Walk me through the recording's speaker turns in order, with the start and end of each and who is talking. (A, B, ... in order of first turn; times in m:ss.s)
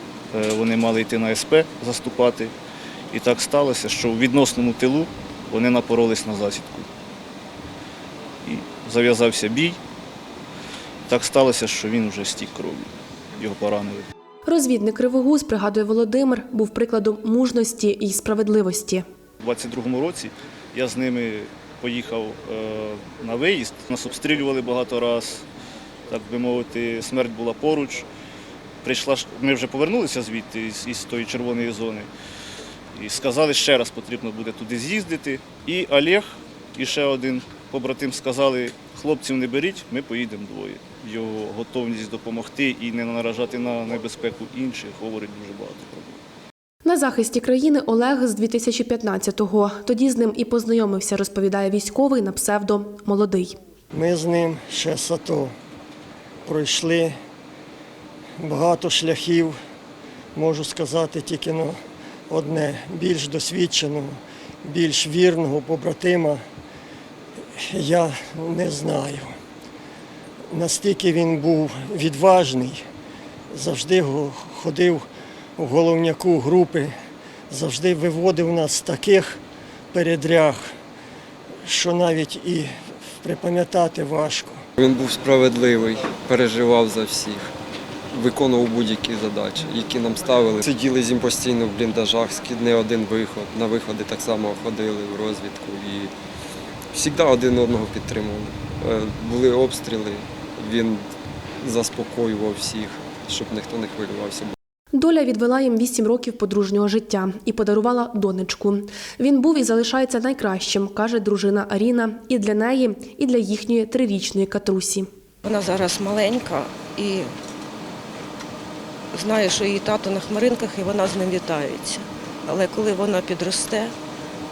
0:00.3-0:02.5 A
0:03.1-0:06.9 A
0:08.4-0:09.8 A
0:11.1-0:14.0 A
0:14.4-0:19.0 B
0:19.4-0:25.4 A
0:26.1-0:28.0 A
0:28.8-0:32.1 A
0:32.9-0:46.2 A
0:46.8-0:53.6 B
0:53.9-0:55.5 C
0:56.4-0:57.1 C
0:58.4-0:59.5 C
1:00.4-1:01.8 C
1:02.3-1:06.4 C
1:07.6-1:09.3 C
1:10.5-1:12.8 C
1:13.5-1:15.0 C
1:15.6-1:16.9 C
1:17.5-1:19.4 C
1:19.9-1:20.7 C
1:21.6-1:22.7 C
1:23.2-1:24.6 C
1:24.8-1:27.5 D
1:28.1-1:36.1 D
1:36.9-1:44.5 D
1:44.9-1:55.1 B
1:55.4-1:57.3 E
1:59.1-2:03.9 E